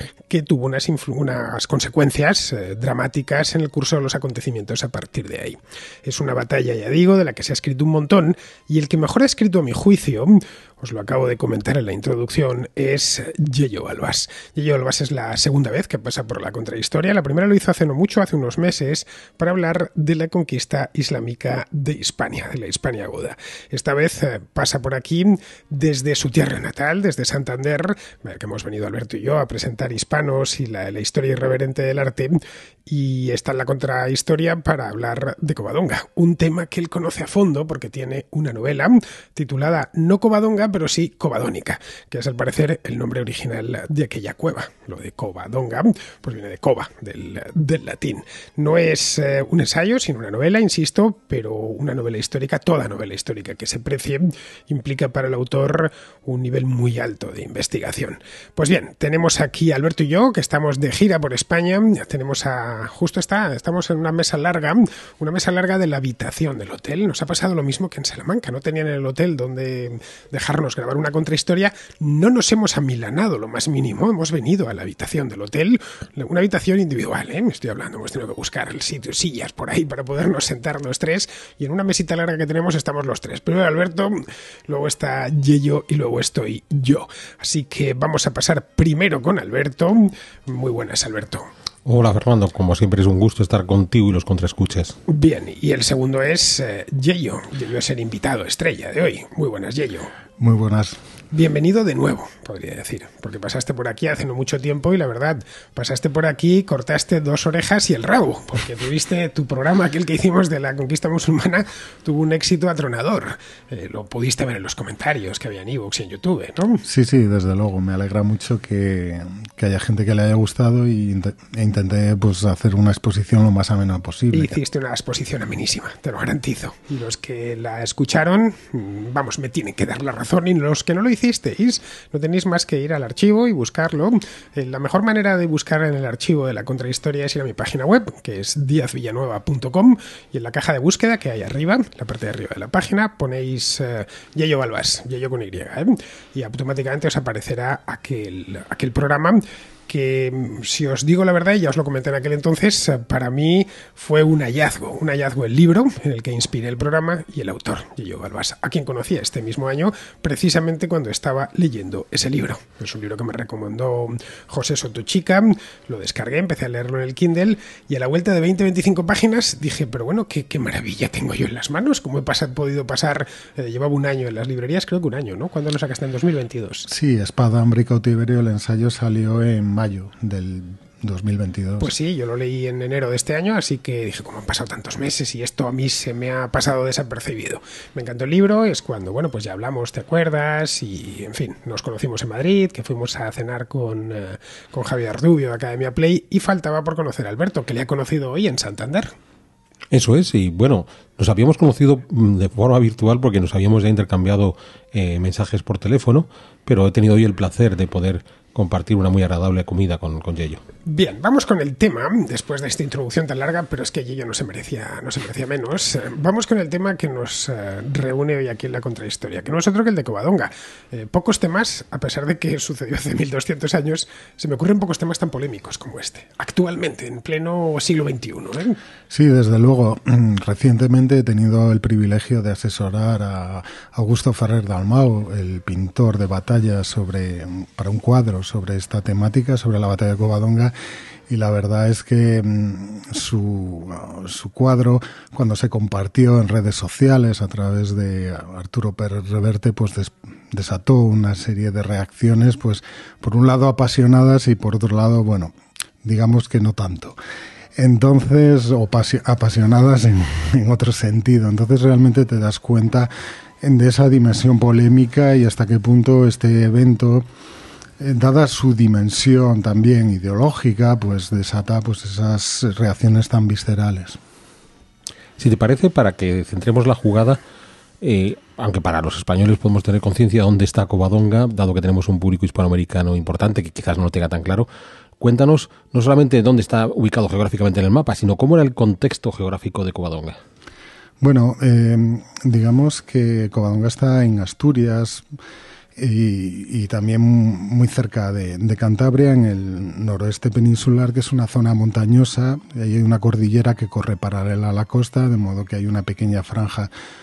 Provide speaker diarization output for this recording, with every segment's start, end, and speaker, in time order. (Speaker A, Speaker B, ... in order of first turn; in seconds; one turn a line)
Speaker A: 0.3-91.5
Speaker B: 91.8-95.0
Speaker A: 95.1-100.1
Speaker C: 100.4-101.0
Speaker A: 101.3-116.8
Speaker C: 116.8-124.6
Speaker A: 124.3-176.9
Speaker C: 176.9-181.9
Speaker A: 181.8-199.1
Speaker B: 199.9-210.6
Speaker A: 210.9-228.8
Speaker C: 229.1-240.7
Speaker C: 241.3-255.5
Speaker C: 256.0-257.2
Speaker C: 257.8-267.3
Speaker C: 268.0-274.2
Speaker B: 275.4-277.4
Speaker B: 278.0-284.7
Speaker B: 285.2-290.4
Speaker C: 291.2-295.2
Speaker C: 296.0-306.9